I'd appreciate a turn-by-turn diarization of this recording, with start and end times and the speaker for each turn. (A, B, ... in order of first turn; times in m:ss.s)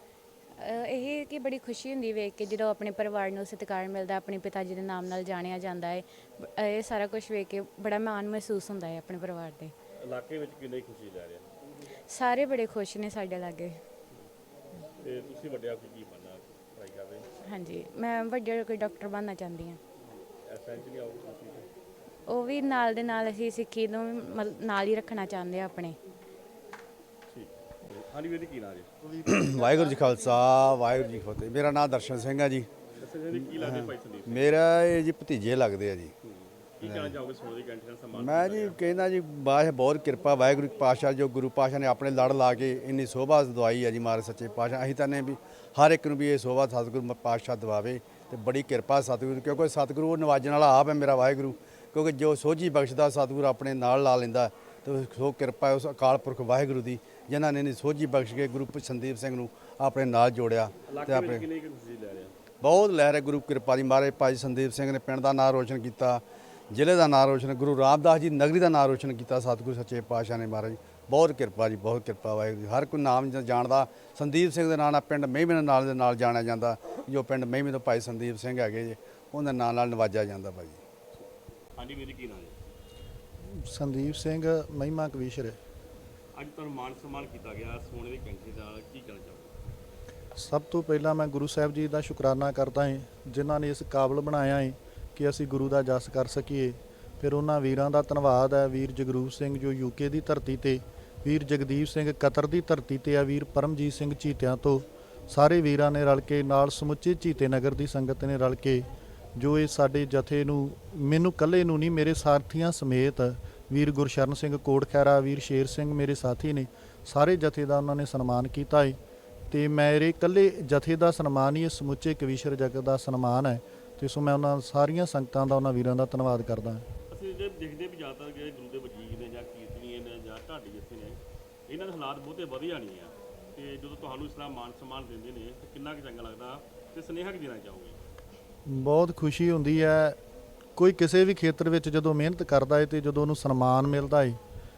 0:00.6-0:09.7 A
0:10.0-0:11.5 B
0:12.1-0:13.8 A
0:15.0-0:17.3 B
0:17.4-0:19.8 A
0:20.4-0:21.7 B
0:22.3-0:26.0 A
0:27.3-0:28.9 B
0:29.1-0:30.1 C
0:29.3-0:32.7 D
0:33.0-0:34.6 B
0:33.4-0:36.1 D
0:36.2-0:38.8 B
0:36.8-0:37.2 D
0:38.1-1:01.4 D
1:00.9-1:02.3 B
1:02.6-1:20.8 D
1:21.1-1:22.6 B
1:23.5-1:25.6 C
1:26.4-1:29.5 B
1:30.4-1:59.0 C
1:59.5-2:06.8 C
2:07.1-2:18.0 B
2:18.7-2:20.2 C
2:20.8-2:24.4 C